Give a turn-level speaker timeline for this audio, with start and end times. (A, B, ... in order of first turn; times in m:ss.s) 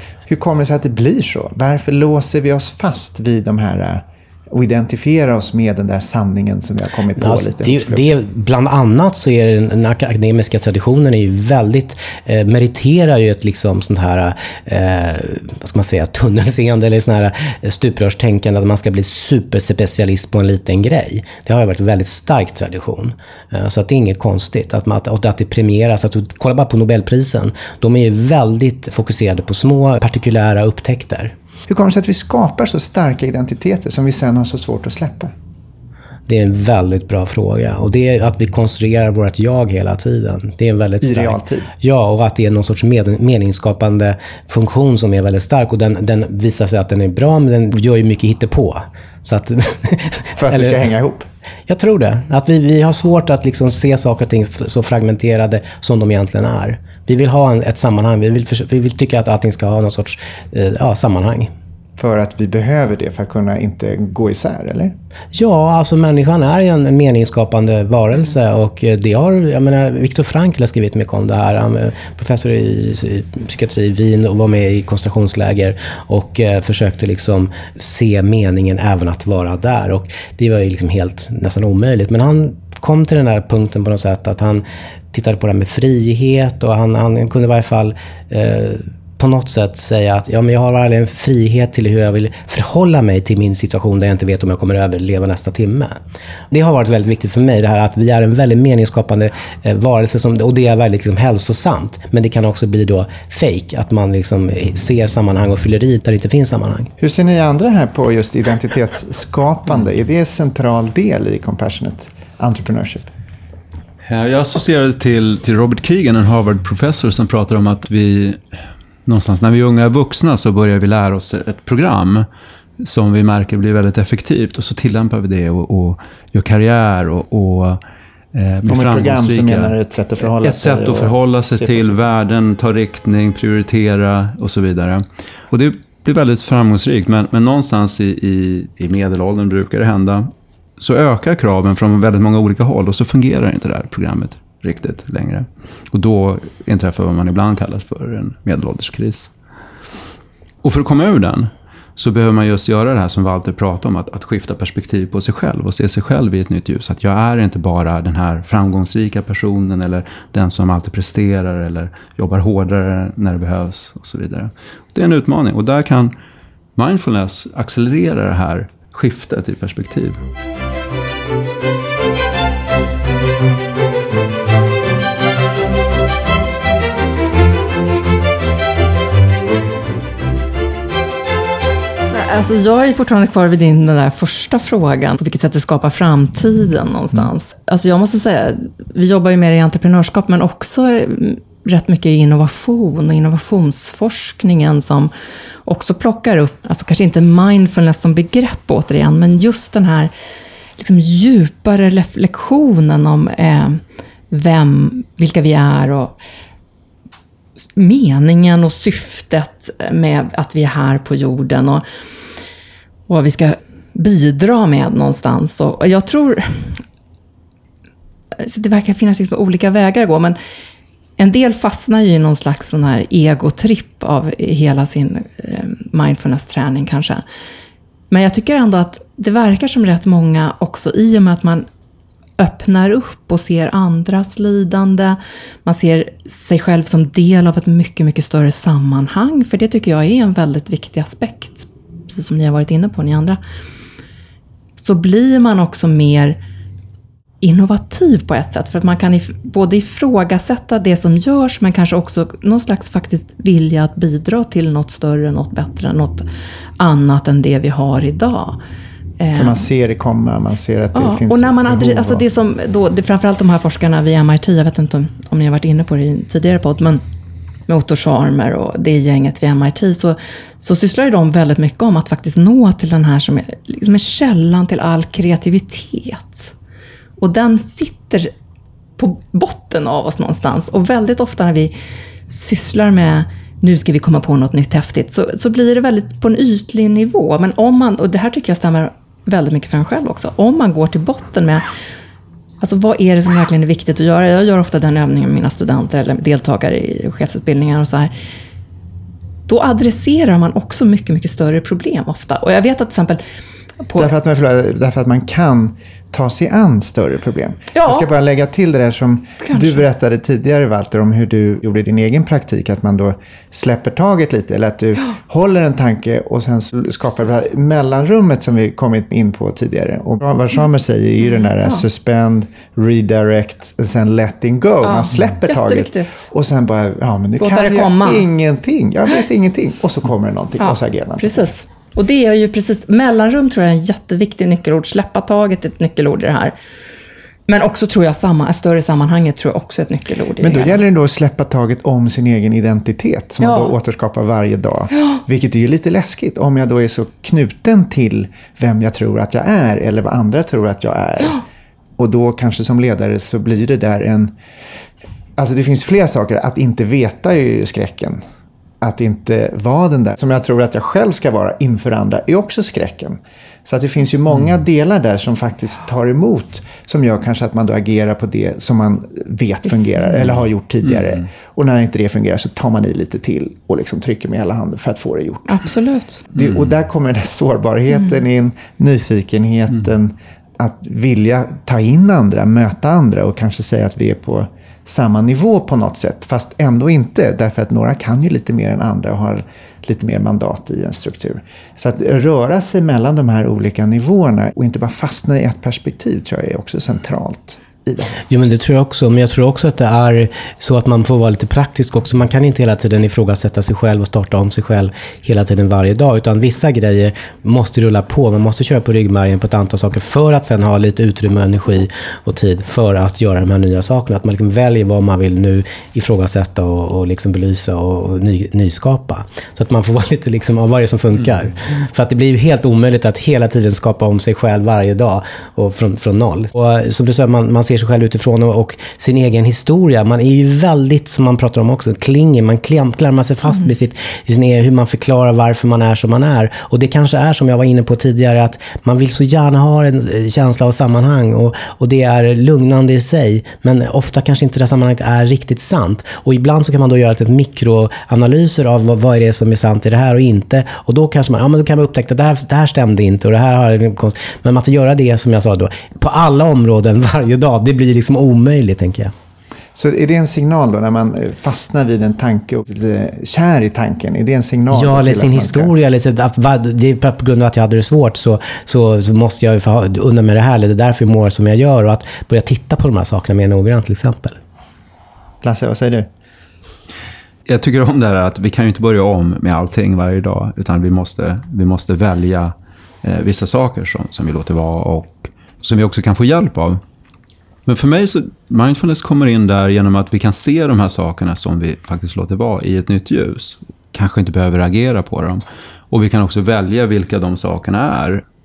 0:00.3-0:08.1 A
0:07.2-0:31.3 B
0:31.7-0:35.3 A
0:36.3-0:50.8 B
0:41.0-0:41.7 A
0:50.4-0:51.3 A
0:51.7-1:01.5 B
1:02.0-1:04.9 A
1:05.3-1:35.9 B
1:36.5-1:46.9 B
1:47.0-1:53.1 A
1:54.0-1:58.4 C
1:59.0-2:02.3 C
2:02.8-2:07.8 C
2:08.3-2:09.7 C
2:08.7-2:12.0 A
2:10.3-2:29.3 C
2:30.6-2:46.1 C
2:46.8-2:50.2 C
3:02.1-3:15.1 D
3:15.6-3:20.1 D
3:20.8-3:26.2 D
3:27.7-3:31.8 D
3:33.1-3:36.8 D
3:38.4-3:40.4 D
3:41.2-3:47.2 D
3:48.1-3:51.7 D
3:52.4-4:03.4 D
4:04.8-4:06.4 D
4:07.4-4:16.2 D
4:16.8-4:18.6 D
4:19.2-4:19.6 D
4:19.3-4:22.2 A
4:20.9-4:27.0 D
4:27.7-4:36.5 D
4:37.2-4:38.3 D
4:39.0-4:41.7 D
4:42.3-4:51.6 D
4:52.6-4:58.1 D
4:59.5-5:03.2 D
5:03.8-5:04.1 D
5:04.0-5:31.5 A
5:07.7-5:08.1 D
5:09.4-5:09.8 D
5:24.8-5:26.3 D
5:27.4-5:28.3 D
5:30.6-5:36.5 D
5:37.5-5:40.8 D
5:40.4-5:51.4 A
5:43.4-5:43.7 D
5:52.0-5:54.3 A
5:55.4-5:58.2 A
5:58.8-6:15.6 A
6:09.7-6:10.4 D
6:15.4-6:16.2 D
6:16.3-6:38.1 A
6:38.3-7:39.1 B
7:39.7-7:45.7 A
7:44.7-7:54.4 B
7:55.4-7:56.1 A
7:57.4-8:06.8 C
8:07.6-8:18.2 C